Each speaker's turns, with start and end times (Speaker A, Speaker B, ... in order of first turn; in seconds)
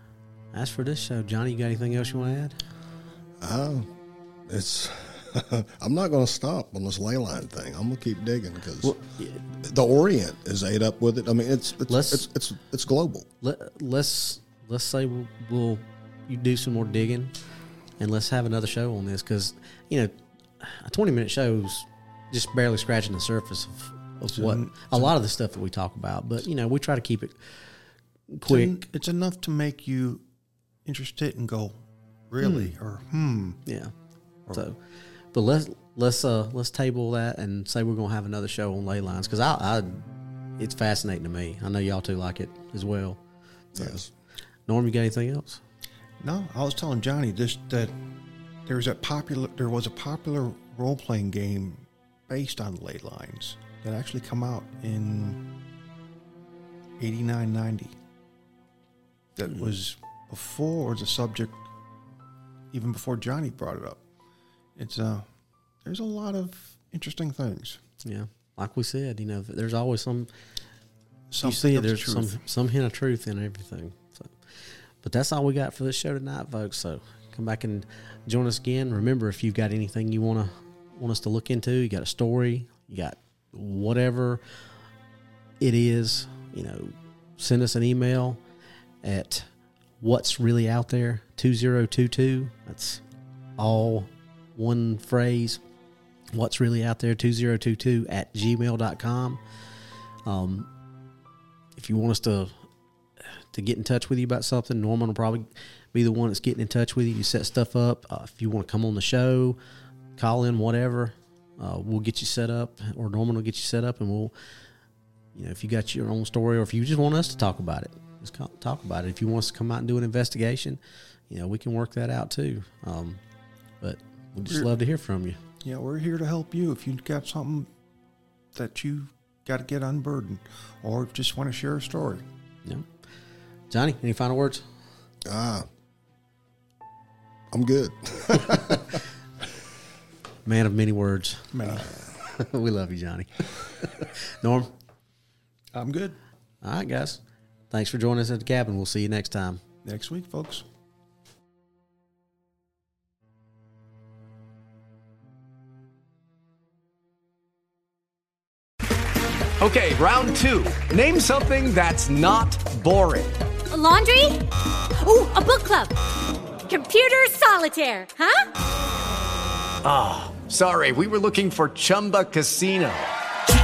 Speaker A: 0.5-2.6, 8.8-9.4, 11.9-12.3, 13.4-17.3, 18.0-27.8, 28.3-28.8, 32.4-32.7, 33.7-33.9, 34.5-34.8, 35.3-40.1, 40.6-43.2, 44.7-45.6, 68.0-70.3, 71.4-84.4, 85.6-88.4, 89.0-89.5, 90.0-93.0, 93.6-95.6, 96.3-99.4, 100.3-100.7, 101.8-102.5, 103.5-109.6, 110.2-114.3, 115.3-123.2, 123.8-125.4, 133.7-134.7, 140.4-144.7, 146.6-149.6
Speaker B: 3.4-3.9, 4.5-9.0, 9.5-13.3, 43.8-44.1, 135.2-135.7, 137.5-139.0
Speaker C: 24.3-25.1, 28.4-30.2, 30.9-33.6, 46.2-48.0, 48.7-55.4, 57.0-58.0, 59.4-61.7, 62.7-64.0, 64.8-65.3, 65.8-67.8, 71.3-72.4, 125.6-127.7, 128.5-132.2, 141.5-142.0, 145.7-146.2, 149.8-150.7
Speaker D: 159.6-163.3, 169.8-173.1
Speaker E: 163.7-164.4, 165.0-165.9, 166.7-168.5